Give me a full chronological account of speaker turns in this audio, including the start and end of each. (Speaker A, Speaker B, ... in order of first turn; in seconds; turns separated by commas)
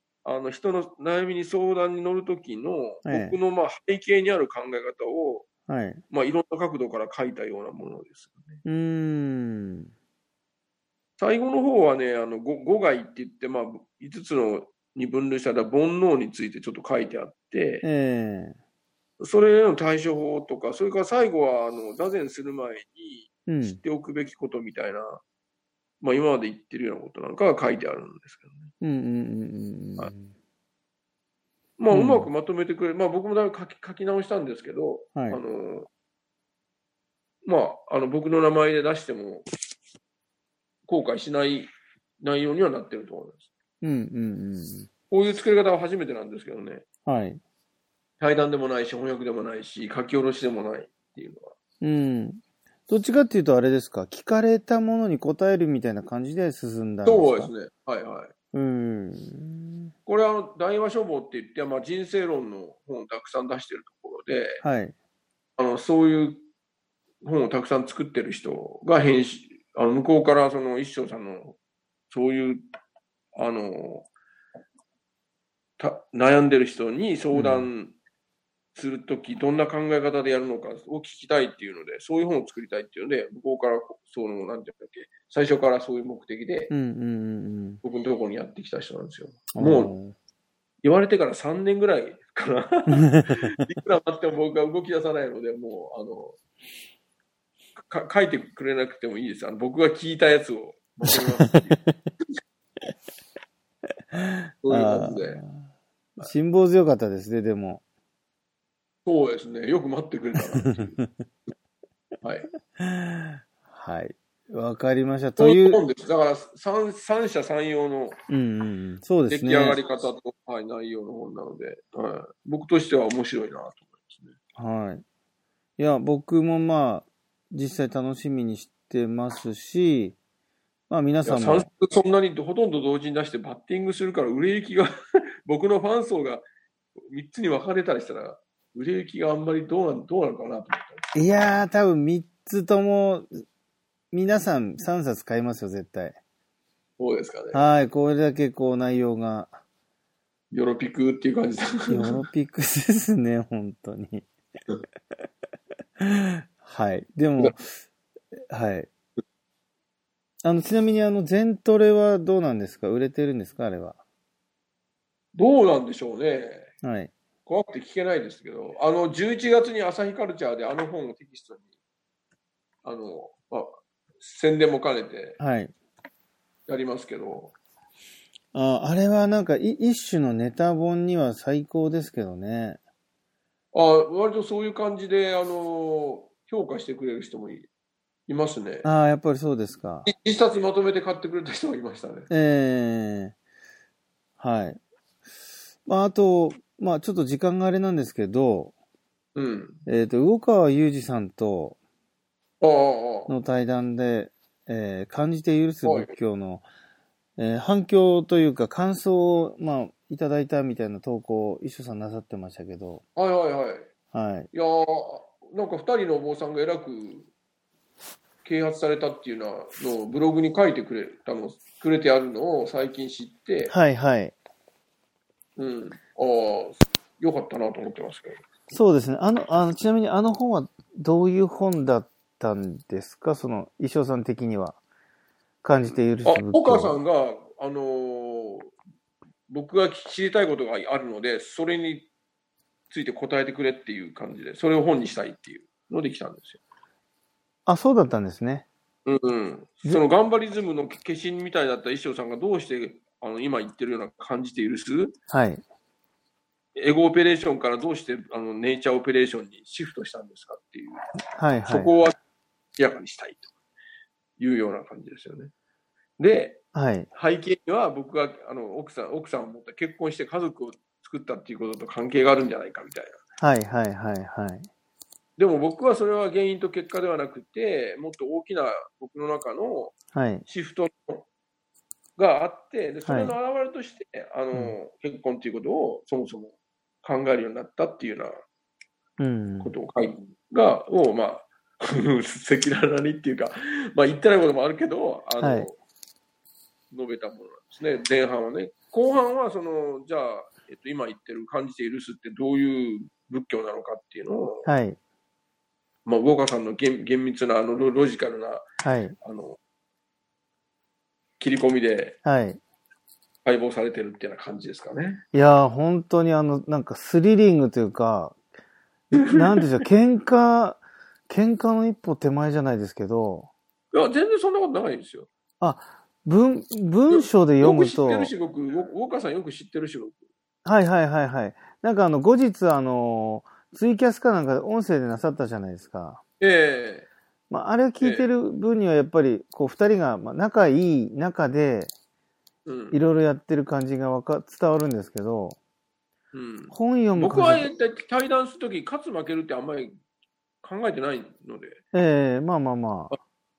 Speaker A: 0.2-5.5, Speaker B: 3.0-3.4, Speaker B: 5.7-6.0, Speaker A: 6.1-8.6, Speaker B: 8.6-9.9, Speaker A: 11.2-17.9, Speaker B: 17.8-18.6, Speaker A: 19.2-25.2, Speaker B: 23.5-23.8, Speaker A: 26.0-28.7, Speaker B: 28.8-30.3, Speaker A: 31.8-35.9, Speaker B: 31.9-32.3, Speaker A: 37.4-39.5, Speaker A: 40.9-41.7, Speaker A: 42.2-43.5, Speaker B: 43.8-44.9, Speaker A: 45.1-46.8, Speaker B: 47.0-47.4, Speaker A: 48.2-51.5, Speaker B: 51.8-57.5, Speaker A: 57.0-58.3, Speaker B: 58.5-59.9, Speaker A: 60.0-64.6, Speaker B: 64.6-64.9, Speaker A: 65.6-66.4, Speaker A: 67.2-71.6, Speaker A: 72.1-72.6, Speaker A: 73.3-74.1, Speaker A: 75.8-77.9, Speaker B: 77.3-77.7, Speaker A: 78.7-86.7, Speaker B: 86.7-87.8, Speaker A: 87.8-89.9, Speaker B: 89.5-90.1, Speaker A: 90.8-96.4, Speaker B: 93.0-93.5, Speaker A: 97.8-101.8, Speaker B: 101.1-101.9, Speaker B: 104.1-105.7, Speaker A: 104.6-105.4, Speaker B: 106.2-107.8, Speaker A: 109.0-111.0, Speaker B: 110.6-111.1, Speaker A: 112.2-112.5, Speaker B: 112.8-115.8, Speaker A: 115.4-118.2, Speaker B: 118.3-119.8, Speaker A: 119.3-124.3, Speaker B: 124.6-125.0, Speaker B: 125.8-130.2, Speaker B: 130.9-131.7, Speaker A: 131.2-134.9, Speaker A: 135.4-136.4, Speaker A: 137.1-141.0, Speaker B: 141.1-143.4, Speaker B: 144.1-146.2, Speaker A: 147.0-147.7, Speaker B: 147.5-149.5, Speaker A: 150.5-152.2, Speaker B: 151.9-154.3, Speaker B: 156.0-157.7, Speaker B: 158.5-158.9, Speaker B: 160.4-164.0, Speaker A: 165.3-166.7, Speaker B: 166.8-167.1, Speaker A: 167.4-171.7, Speaker A: 172.8-175.4, Speaker B: 175.4-175.7, Speaker A: 176.7-177.6, Speaker B: 178.5-182.8, Speaker A: 183.7-187.7, Speaker A: 188.3-188.9, Speaker B: 188.8-190.1, Speaker A: 190.0-192.3, Speaker B: 192.3-193.3, Speaker B: 194.4-194.8, Speaker B: 195.8-198.7, Speaker A: 199.3-199.8, Speaker B: 199.8-201.8, Speaker A: 202.6-203.3, Speaker B: 203.3-206.7, Speaker A: 205.8-206.1, Speaker B: 207.4-213.0, Speaker A: 213.2-213.9, Speaker B: 214.1-214.5, Speaker A: 214.5-217.3, Speaker A: 218.4-223.7, Speaker B: 223.7-224.3, Speaker A: 225.6-228.4, Speaker B: 228.7-234.8, Speaker B: 235.6-237.0, Speaker A: 236.2-238.7, Speaker A: 239.5-242.1, Speaker A: 242.9-246.6, Speaker B: 247.7-248.7, Speaker A: 249.0-255.2, Speaker B: 255.3-255.6, Speaker A: 256.8-261.0, Speaker B: 261.4-261.9, Speaker A: 261.7-262.2, Speaker A: 262.8-263.5, Speaker A: 264.4-265.5, Speaker A: 266.2-266.6, Speaker B: 266.7-267.1, Speaker A: 267.1-273.2, Speaker B: 273.4-274.7, Speaker A: 275.4-279.9, Speaker B: 280.1-280.4, Speaker A: 280.4-281.2, Speaker A: 282.2-288.3, Speaker B: 283.1-283.3, Speaker B: 289.2-289.7, Speaker A: 289.6-295.8, Speaker B: 295.4-295.7, Speaker A: 296.9-304.7, Speaker B: 304.6-305.0, Speaker A: 306.0-308.6, Speaker B: 308.8-309.1, Speaker A: 309.2-309.6, Speaker A: 311.4-312.2, Speaker B: 312.2-312.6, Speaker A: 313.4-315.2, Speaker B: 315.3-318.4, Speaker B: 319.1-323.5, Speaker A: 319.2-319.6, Speaker A: 323.9-325.3, Speaker B: 325.6-328.3, Speaker A: 327.1-330.2, Speaker B: 330.6-336.2, Speaker A: 336.4-337.1, Speaker B: 337.5-341.9, Speaker A: 338.0-338.3, Speaker A: 342.6-343.0, Speaker B: 342.9-345.6, Speaker A: 346.3-350.0, Speaker B: 346.7-347.7, Speaker A: 350.6-351.8, Speaker B: 351.9-353.1